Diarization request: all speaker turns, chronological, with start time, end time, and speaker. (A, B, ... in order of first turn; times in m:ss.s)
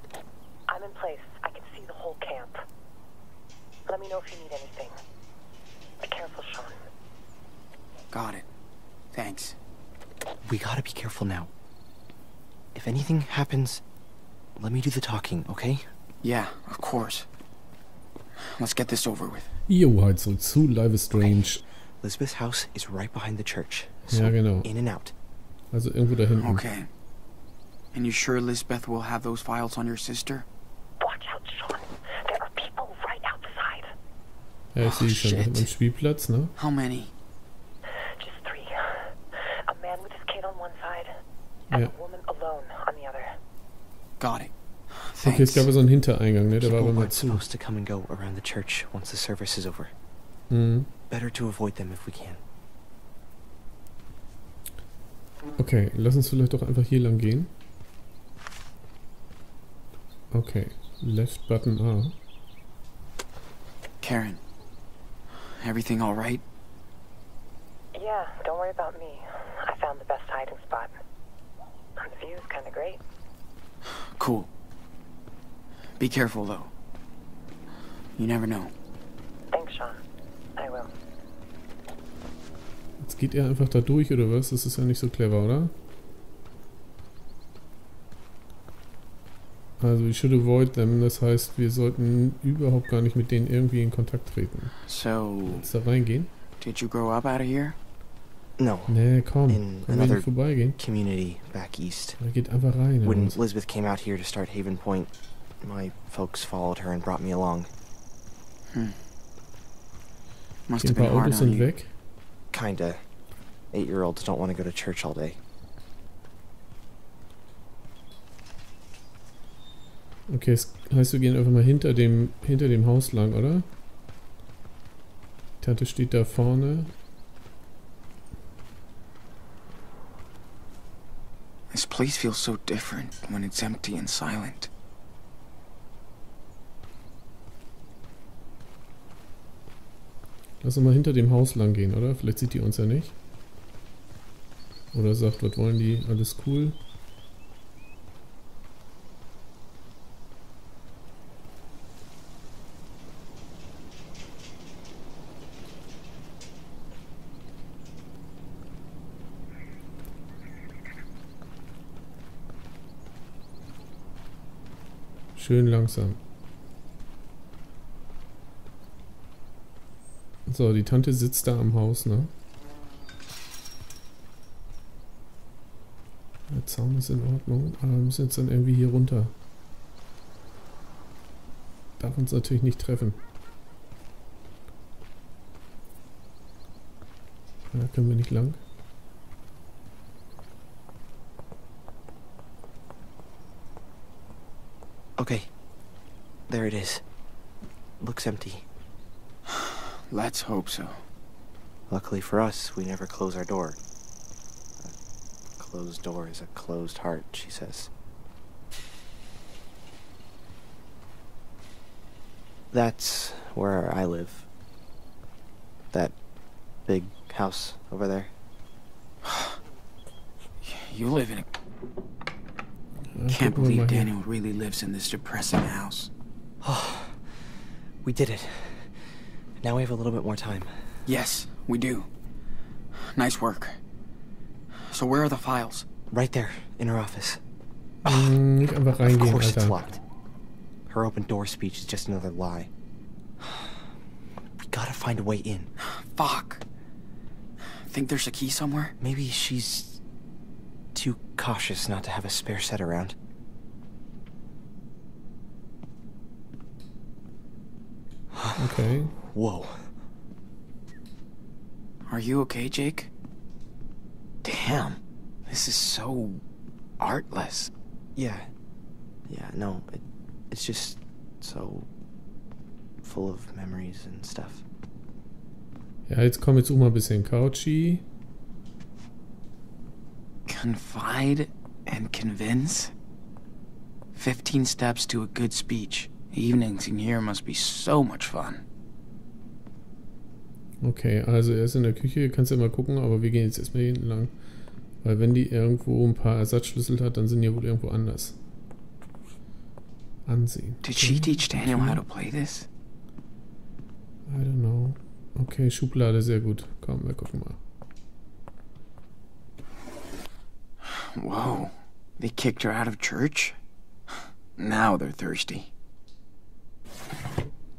0:00.7-0:02.6 A
0:03.9-0:05.0 A
0:06.0-0:06.8 A
0:08.1-0:08.4 B
0:09.1-0:09.6 B
0:10.4-0:11.5 C
0:12.7-0:13.8 C
0:14.6-0:15.9 C
0:16.2-0:17.3 B
0:18.4-0:19.5 B
0:19.7-0:21.6 D
0:22.0-0:25.1 C
0:24.1-0:24.7 D
0:25.7-0:26.6 D
0:26.4-0:26.9 B
0:27.9-0:30.4 B
0:31.0-0:33.9 A
0:34.7-0:36.5 D
0:34.8-0:35.7 B
0:36.6-0:37.1 B
0:38.2-0:39.0 A
0:39.7-0:41.1 A
0:41.7-0:43.3 A
0:44.2-0:44.5 B
0:45.0-0:45.7 B
0:45.2-0:47.4 D
0:46.6-0:49.9 C
0:50.5-0:50.9 D
0:51.1-0:52.4 C
0:55.6-0:57.5 D
1:00.3-1:02.1 D
1:04.0-1:04.4 B
1:05.3-1:06.4 B
1:07.9-1:11.0 A
1:12.0-1:13.0 A
1:13.9-1:14.5 B
1:16.0-1:16.7 B
1:18.2-1:18.7 B
1:19.5-1:20.0 A
1:20.6-1:20.9 A
1:23.0-1:25.7 D
1:29.8-1:34.8 D
1:34.8-1:35.7 B
1:35.5-1:36.3 D
1:36.6-1:37.8 B
1:38.6-1:42.2 C
1:38.9-1:40.8 D
1:42.2-1:43.4 D
1:43.0-1:47.7 C
1:48.7-1:49.0 B
1:50.7-1:51.7 B
1:50.8-1:51.9 D
1:52.5-1:53.1 C
1:53.7-1:55.4 C
2:00.3-2:03.6 D
2:05.6-2:06.9 D
2:11.7-2:14.7 B
2:20.6-2:23.2 D
2:24.9-2:26.8 D
2:45.4-2:46.2 D
2:50.5-2:52.3 D
2:56.5-2:59.3 D
3:02.0-3:03.2 D
3:07.7-3:08.6 D
3:15.2-3:15.5 C
3:16.5-3:17.0 C
3:18.0-3:18.6 C
3:19.5-3:21.0 B
3:21.9-3:23.8 C
3:25.6-3:27.9 C
3:32.7-3:34.5 C
3:36.8-3:38.3 C
3:39.2-3:39.6 B
3:40.6-3:41.5 B
3:43.1-3:44.1 D
3:43.3-3:46.1 B
3:46.6-3:47.2 C
3:48.0-3:48.9 C
3:49.6-3:50.7 C
3:51.0-3:52.1 B
3:52.9-3:53.8 B
3:54.8-3:55.9 B
3:56.1-3:57.4 C
3:58.0-3:59.8 D
3:58.0-3:58.3 B
3:59.0-4:00.0 C
4:00.9-4:02.7 C
4:03.4-4:03.8 C
4:04.6-4:05.7 C
4:05.8-4:06.6 B
4:07.6-4:08.9 B
4:09.0-4:10.0 C
4:10.9-4:13.2 C
4:18.3-4:18.6 C
4:18.6-4:19.1 D
4:19.2-4:19.9 C
4:22.1-4:23.1 B
4:24.4-4:26.4 B
4:27.0-4:27.7 B
4:28.2-4:28.5 C
4:29.3-4:31.9 C
4:33.0-4:34.6 C
4:36.1-4:38.0 D
4:40.5-4:42.9 B
4:44.1-4:48.6 B
4:50.8-4:54.4 D
4:55.0-4:58.4 D
5:00.2-5:02.0 D
5:00.8-5:02.7 B
5:04.3-5:07.6 D
5:10.8-5:13.6 B
5:14.6-5:15.7 B